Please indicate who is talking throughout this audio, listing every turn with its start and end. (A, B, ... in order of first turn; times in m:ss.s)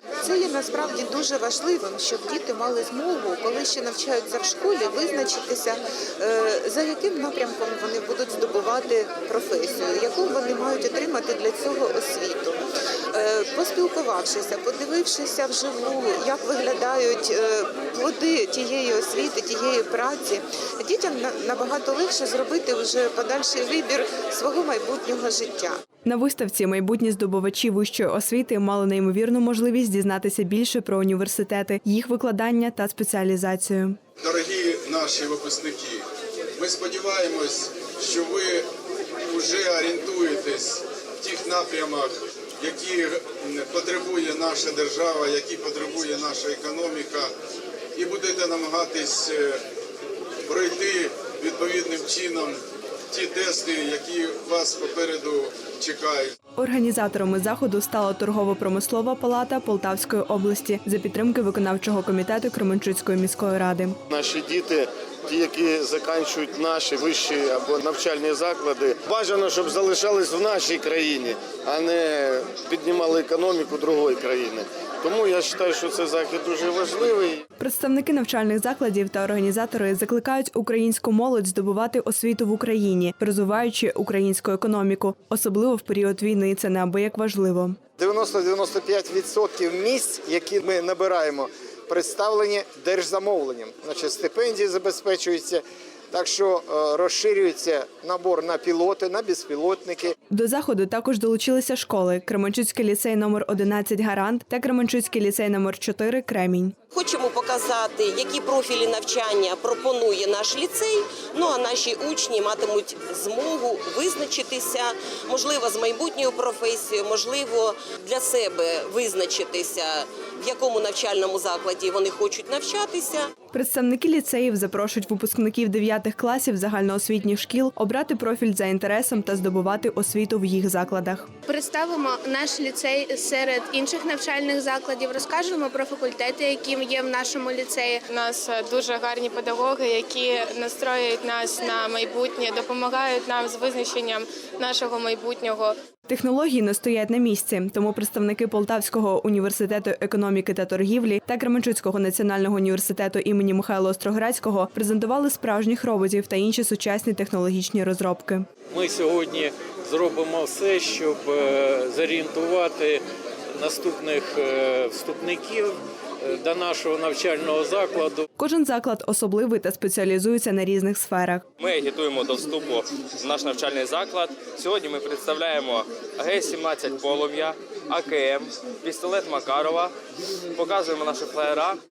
0:00.2-0:12.6 A
0:13.1-0:25.8 A
0:26.0-0:34.0 B
0:34.2-0:38.7 C
0:39.2-0:47.3 C
0:48.0-0:49.6 C
0:50.4-0:56.3 C
0:56.6-1:04.0 B
1:04.1-1:17.4 D
1:17.6-1:27.8 B
1:28.0-1:40.1 E
1:40.3-1:46.7 B
1:46.9-2:03.3 F
2:03.5-2:11.3 B
2:11.5-2:18.0 G
2:18.1-2:25.8 H
2:26.1-2:38.4 B
2:38.7-2:48.2 I
2:48.4-2:51.4 B
2:51.6-2:59.9 J
2:54.1-2:54.4 C
3:00.6-3:01.8 J